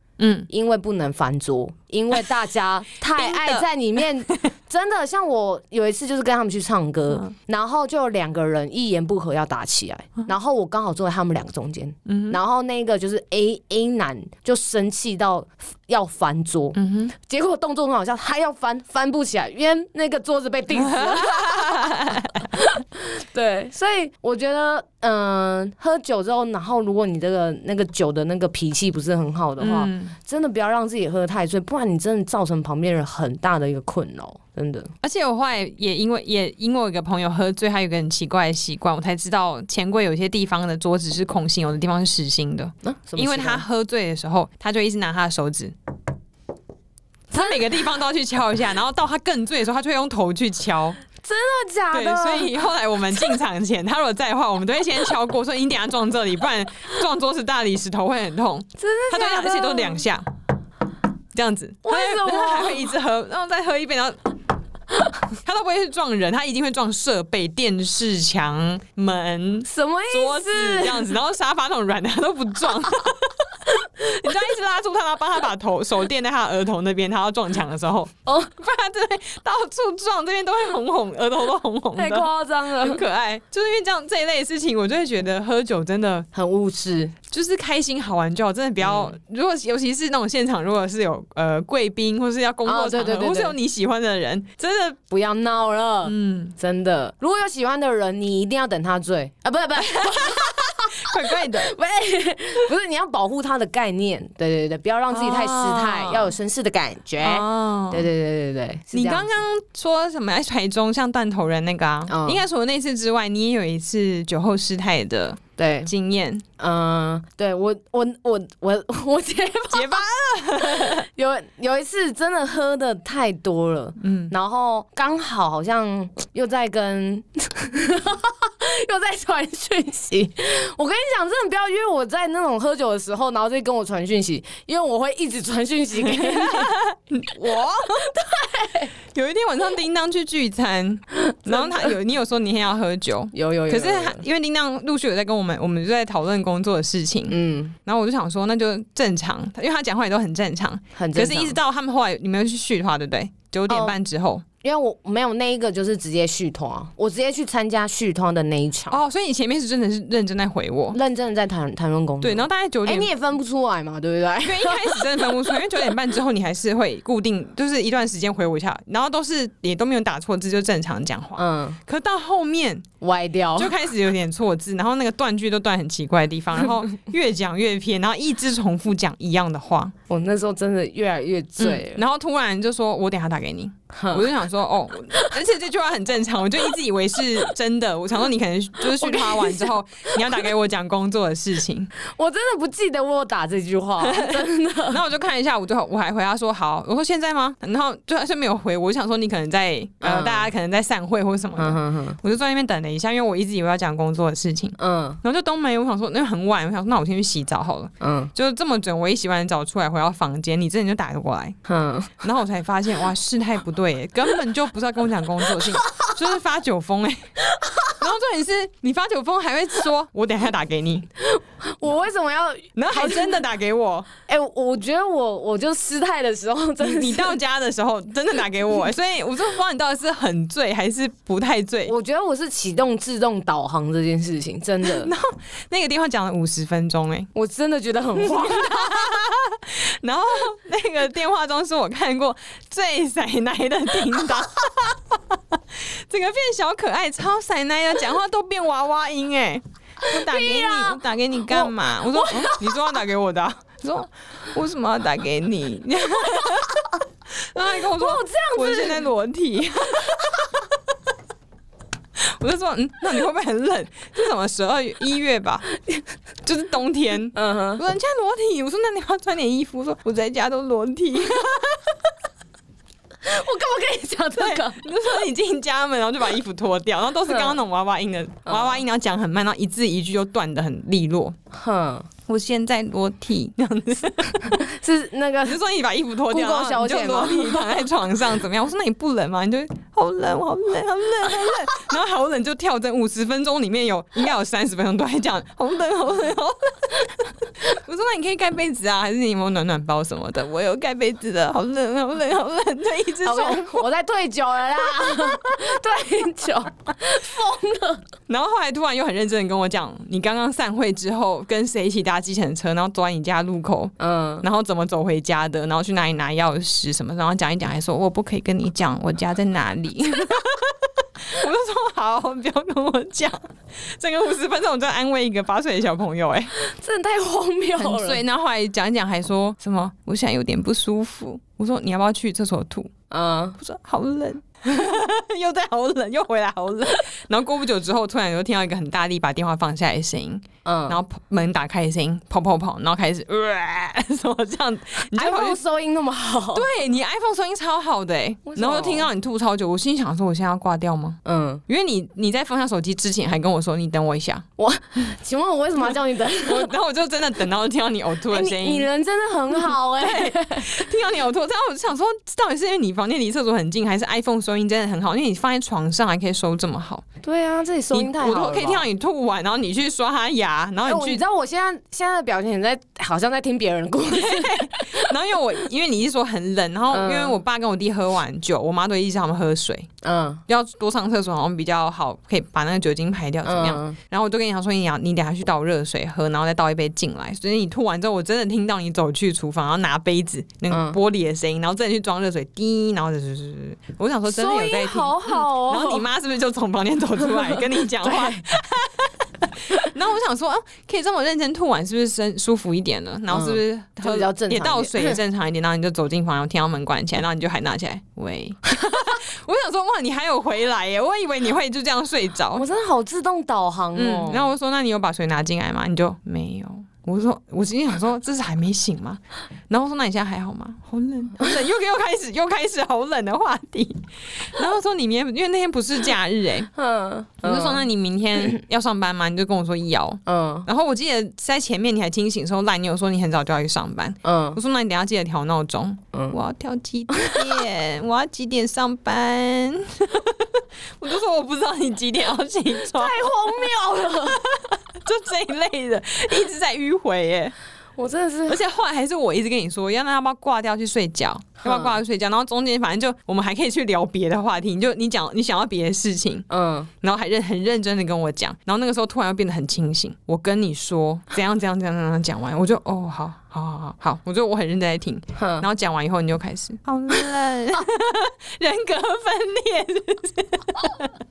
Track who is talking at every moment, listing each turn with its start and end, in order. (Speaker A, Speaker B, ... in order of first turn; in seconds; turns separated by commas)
Speaker A: 0.2-0.5, Speaker B: 0.5-34.9, Speaker A: 3.0-4.4, Speaker A: 12.1-12.4, Speaker A: 16.7-17.1, Speaker A: 20.7-22.5, Speaker A: 29.6-30.1, Speaker A: 35.0-45.7, Speaker B: 42.8-43.6, Speaker A: 47.3-51.0, Speaker B: 51.2-52.6, Speaker A: 51.9-60.3, Speaker B: 58.8-60.0, Speaker A: 61.3-64.3, Speaker B: 61.8-62.9, Speaker A: 65.2-86.3, Speaker B: 69.6-71.2, Speaker B: 78.2-78.5, Speaker B: 82.0-83.0, Speaker B: 86.3-87.1, Speaker A: 87.3-95.0, Speaker B: 88.8-89.1, Speaker B: 92.6-93.5, Speaker B: 95.1-109.3, Speaker A: 96.0-96.5, Speaker A: 100.0-101.7, Speaker A: 105.1-106.3, Speaker A: 107.2-108.1, Speaker A: 108.9-116.4, Speaker B: 112.1-112.4, Speaker B: 115.6-115.9, Speaker B: 116.6-120.0, Speaker A: 119.7-121.0, Speaker B: 120.6-136.8, Speaker A: 124.0-124.3, Speaker A: 136.0-138.1, Speaker B: 137.5-138.9, Speaker A: 139.1-154.4, Speaker B: 141.3-141.9, Speaker B: 143.3-144.2, Speaker B: 147.3-147.8, Speaker B: 150.9-151.6, Speaker B: 153.7-154.0, Speaker B: 154.6-159.0, Speaker A: 158.9-161.0, Speaker B: 160.9-165.8, Speaker A: 162.2-163.1, Speaker A: 164.4-172.9, Speaker B: 171.4-171.8, Speaker B: 173.0-173.8, Speaker A: 173.6-179.9, Speaker B: 180.1-182.0, Speaker A: 181.6-191.9, Speaker B: 183.9-184.3, Speaker B: 188.8-190.5, Speaker B: 192.0-195.0, Speaker A: 194.0-211.6, Speaker B: 200.0-200.5, Speaker B: 201.6-202.2, Speaker B: 204.8-205.2, Speaker B: 208.0-208.3, Speaker B: 211.7-212.2, Speaker A: 212.2-217.3, Speaker B: 215.8-216.1, Speaker B: 217.5-218.0, Speaker A: 217.9-221.1, Speaker B: 221.2-223.4, Speaker A: 222.8-224.1, Speaker B: 224.2-227.4, Speaker A: 226.8-231.9, Speaker B: 231.8-235.1, Speaker A: 234.8-237.3, Speaker B: 237.3-239.1, Speaker A: 238.2-260.5, Speaker B: 250.0-253.0, Speaker B: 257.9-259.0, Speaker A: 262.2-265.6, Speaker A: 266.4-272.1, Speaker B: 267.3-267.8, Speaker B: 273.2-274.8, Speaker A: 274.3-281.4, Speaker B: 277.3-277.6, Speaker B: 278.4-278.8, Speaker B: 281.5-282.1, Speaker A: 282.2-284.6, Speaker B: 284.5-285.6, Speaker A: 285.4-303.9, Speaker B: 286.3-287.8, Speaker B: 303.2-308.0, Speaker A: 304.8-305.8, Speaker A: 308.3-326.5, Speaker B: 314.0-314.4, Speaker B: 326.5-328.2, Speaker A: 327.8-332.9, Speaker B: 333.1-333.6, Speaker A: 333.6-345.6, Speaker B: 340.6-341.0, Speaker B: 345.1-346.6, Speaker A: 346.5-354.4, Speaker B: 348.5-349.1, Speaker B: 351.2-351.6, Speaker B: 354.6-356.7, Speaker A: 355.9-358.9, Speaker B: 358.3-360.8, Speaker A: 359.5-367.0, Speaker B: 367.2-368.9, Speaker A: 367.9-371.2, Speaker B: 370.8-375.1, Speaker A: 374.1-379.9, Speaker B: 376.9-377.4, Speaker B: 380.0-380.4, Speaker A: 380.5-412.6, Speaker B: 383.4-384.0, Speaker B: 390.7-391.0, Speaker B: 394.3-396.1, Speaker B: 398.0-398.4, Speaker B: 403.3-405.2, Speaker B: 412.5-414.5, Speaker A: 413.9-426.7, Speaker B: 426.8-427.9, Speaker A: 427.4-447.5, Speaker B: 430.2-430.7, Speaker B: 434.2-434.6, Speaker B: 437.1-437.5, Speaker B: 442.9-444.4, Speaker B: 448.0-448.6, Speaker A: 448.5-456.4, Speaker B: 451.6-452.0, Speaker B: 456.5-456.9, Speaker A: 457.0-471.1, Speaker B: 465.4-465.7